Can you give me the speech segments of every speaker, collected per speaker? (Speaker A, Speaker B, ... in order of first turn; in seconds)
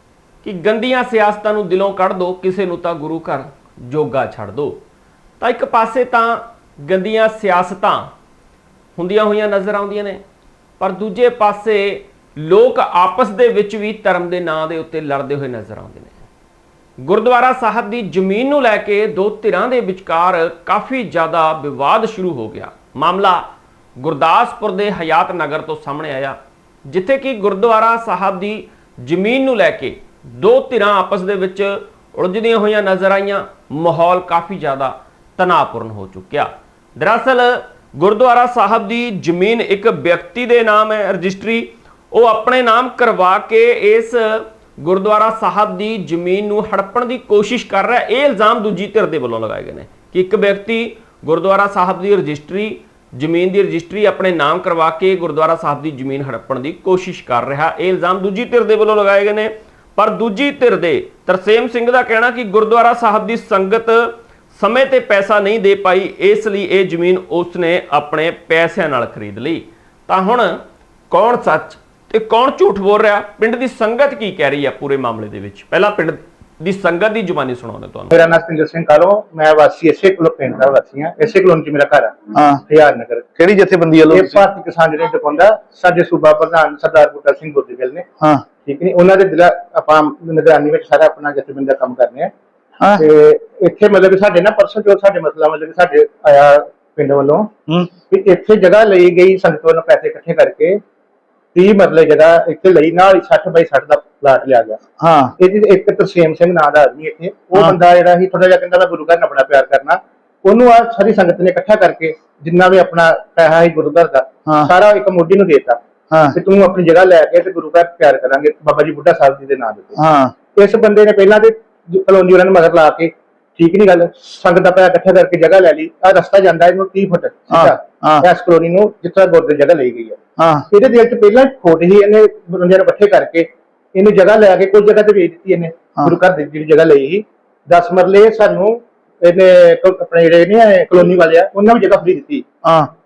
Speaker A: 0.4-4.8, 5.4-8.1, 8.9-10.2, 10.8-16.2, 17.0-23.4, 24.0-26.4, 26.9-78.1
Speaker B: 78.1-83.3, 84.1-88.1, 88.6-92.3, 93.0-100.8, 101.5-104.8, 105.4-115.8, 116.3-120.0, 120.5-142.5
Speaker C: 82.3-82.6, 83.4-84.4, 97.7-97.9, 105.0-105.3, 114.5-114.7, 116.1-116.4, 119.9-120.3, 127.5-128.3, 130.4-130.7, 142.6-142.9